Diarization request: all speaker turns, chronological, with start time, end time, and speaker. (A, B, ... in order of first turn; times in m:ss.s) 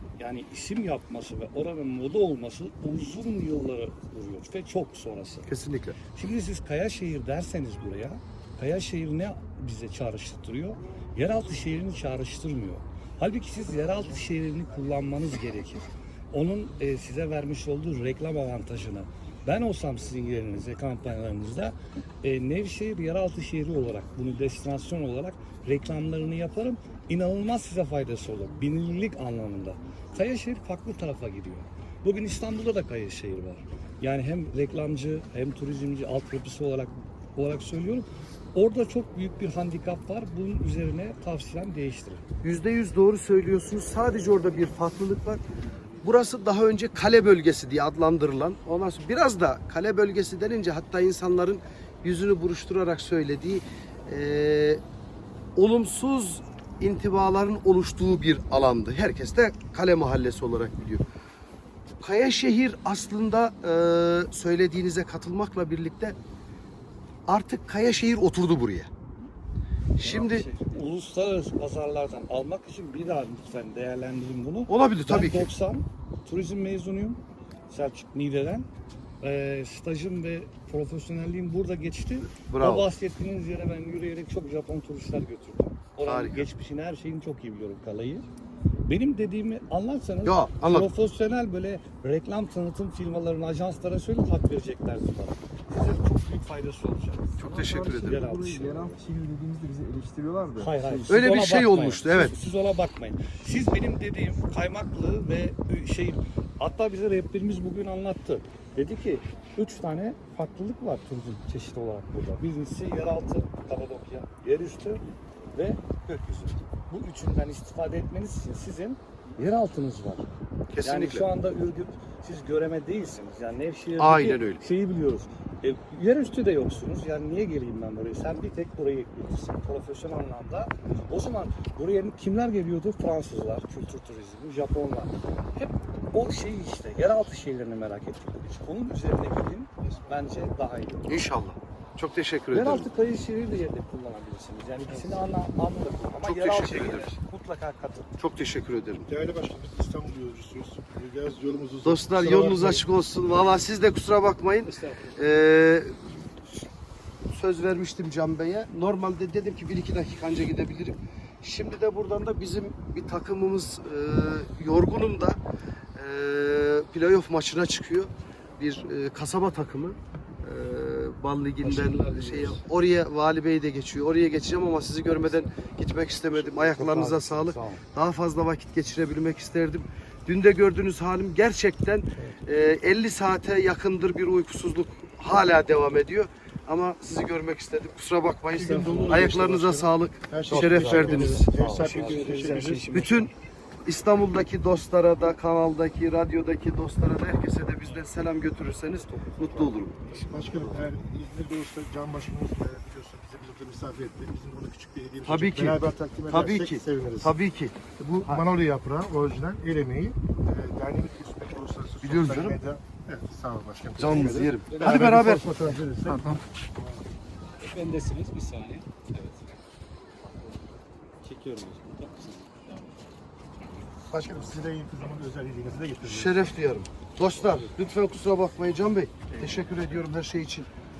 0:00.2-0:05.5 A
0:05.5-0:06.0 B
0:06.2-0:42.2 A
0:42.4-0:45.4 B
0:46.0-0:54.8 B
0:55.6-1:01.0 B
1:02.0-1:06.2 B
1:07.3-1:08.9 B
1:10.0-1:10.5 B
1:10.0-1:17.2 A
1:14.7-1:15.5 B
1:17.7-1:18.7 A
1:19.2-1:28.3 A
1:22.4-1:22.9 B
1:26.0-1:26.5 B
1:28.9-1:39.0 A
1:30.2-1:30.9 B
1:37.4-1:38.2 B
1:37.4-1:41.2 C
1:40.6-1:55.0 A
1:41.1-1:42.3 B
1:55.5-2:00.3 A
2:00.7-2:01.3 B
2:00.8-2:21.2 A
2:04.0-2:04.6 B
2:21.1-2:22.9 B
2:22.5-2:28.1 A
2:26.2-2:27.1 B
2:28.2-2:29.1 B
2:29.1-2:32.8 D
2:31.8-2:36.3 B
2:34.7-2:35.0 A
2:37.3-2:45.4 B
2:46.0-3:13.3 B
2:51.6-2:52.6 A
2:56.3-2:57.8 A
3:08.5-3:12.9 D
3:08.8-3:09.4 A
3:10.5-3:13.3 A
3:13.9-3:20.9 B
3:19.2-3:19.7 A
3:20.2-3:27.3 D
3:25.3-3:28.5 B
3:28.0-3:37.0 D
3:32.0-3:32.6 B
3:34.0-3:35.5 B
3:34.7-3:35.8 A
3:37.6-3:39.4 A
3:41.2-3:42.8 A
3:44.1-3:46.4 D
3:46.0-3:50.7 B